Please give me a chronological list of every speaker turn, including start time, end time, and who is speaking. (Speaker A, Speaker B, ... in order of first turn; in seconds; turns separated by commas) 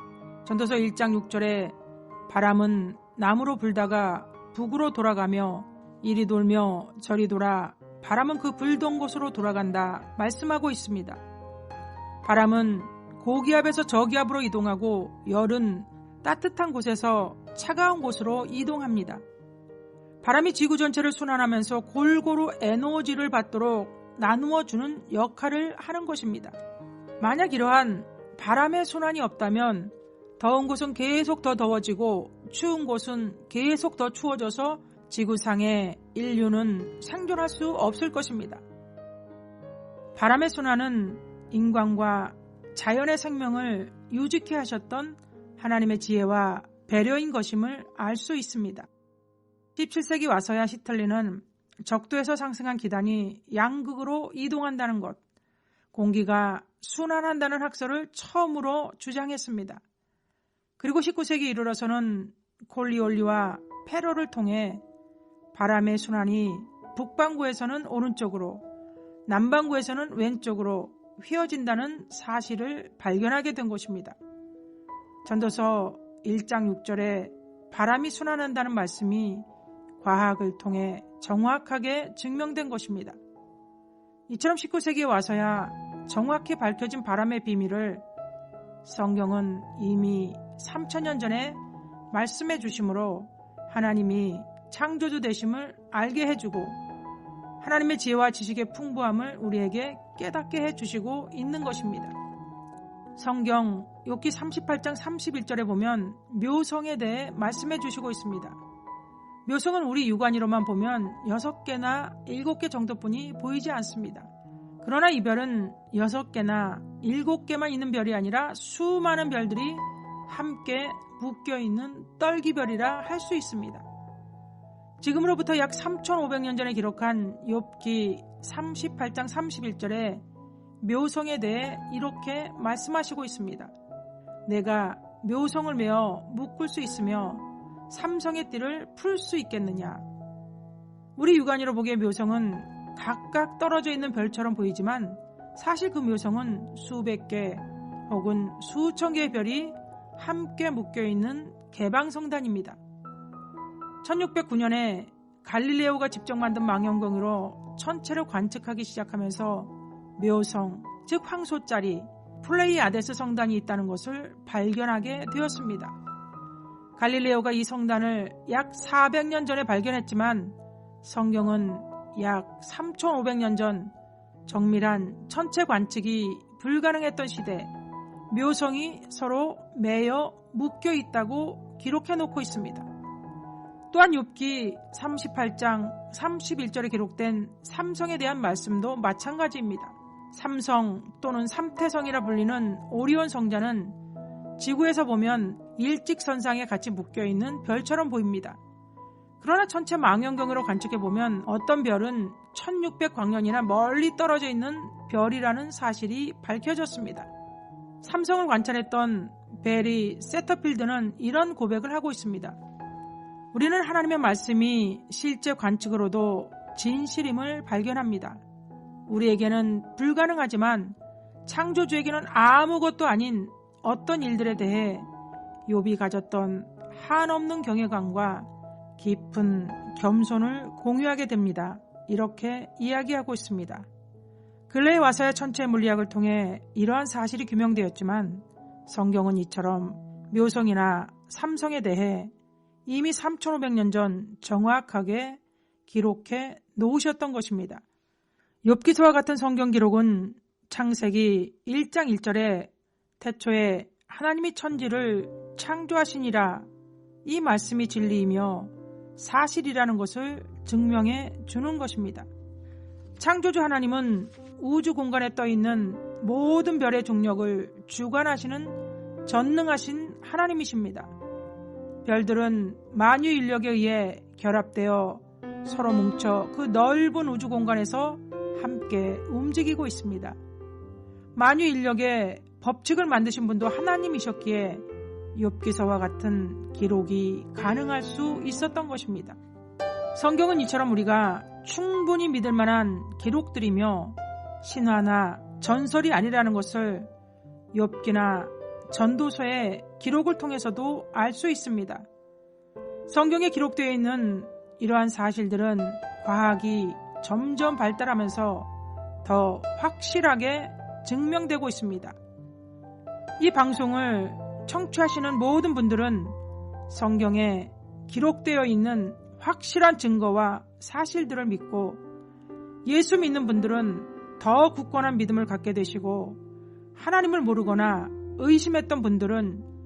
Speaker A: 0.4-1.8, Speaker A: 2.3-11.2, Speaker A: 12.2-19.2, Speaker A: 20.2-26.6, Speaker A: 27.2-38.6, Speaker A: 40.1-48.9, Speaker A: 49.8-55.2, Speaker A: 55.9-59.8, Speaker A: 60.8-64.8, Speaker A: 65.5-68.6, Speaker A: 69.3-74.2, Speaker A: 75.2-79.5, Speaker A: 80.0-83.2, Speaker A: 84.3-88.0, Speaker A: 88.8-91.6, Speaker A: 92.1-96.8, Speaker A: 97.6-102.1, Speaker A: 103.2-108.6, Speaker A: 109.5-114.3, Speaker A: 114.8-123.8, Speaker A: 125.0-130.2, Speaker A: 130.8-133.7, Speaker A: 134.4-140.0, Speaker A: 141.2-152.8, Speaker A: 154.0-165.9, Speaker A: 167.0-173.9, Speaker A: 174.4-177.7, Speaker A: 178.3-182.9, Speaker A: 183.9-194.0, Speaker A: 194.6-198.6, Speaker A: 199.4-207.3, Speaker A: 208.0-212.6, Speaker A: 213.5-218.4, Speaker A: 219.1-225.1, Speaker A: 225.7-233.9, Speaker A: 234.7-242.3, Speaker A: 242.8-247.8, Speaker A: 248.6-256.7, Speaker A: 257.2-262.3, Speaker A: 263.2-271.1, Speaker A: 272.0-280.4, Speaker A: 281.3-289.4, Speaker A: 290.1-297.1, Speaker A: 297.7-302.1, Speaker A: 303.1-308.7, Speaker A: 309.2-312.1, Speaker A: 313.4-316.4, Speaker A: 316.9-322.0, Speaker A: 322.8-326.4, Speaker A: 326.9-329.7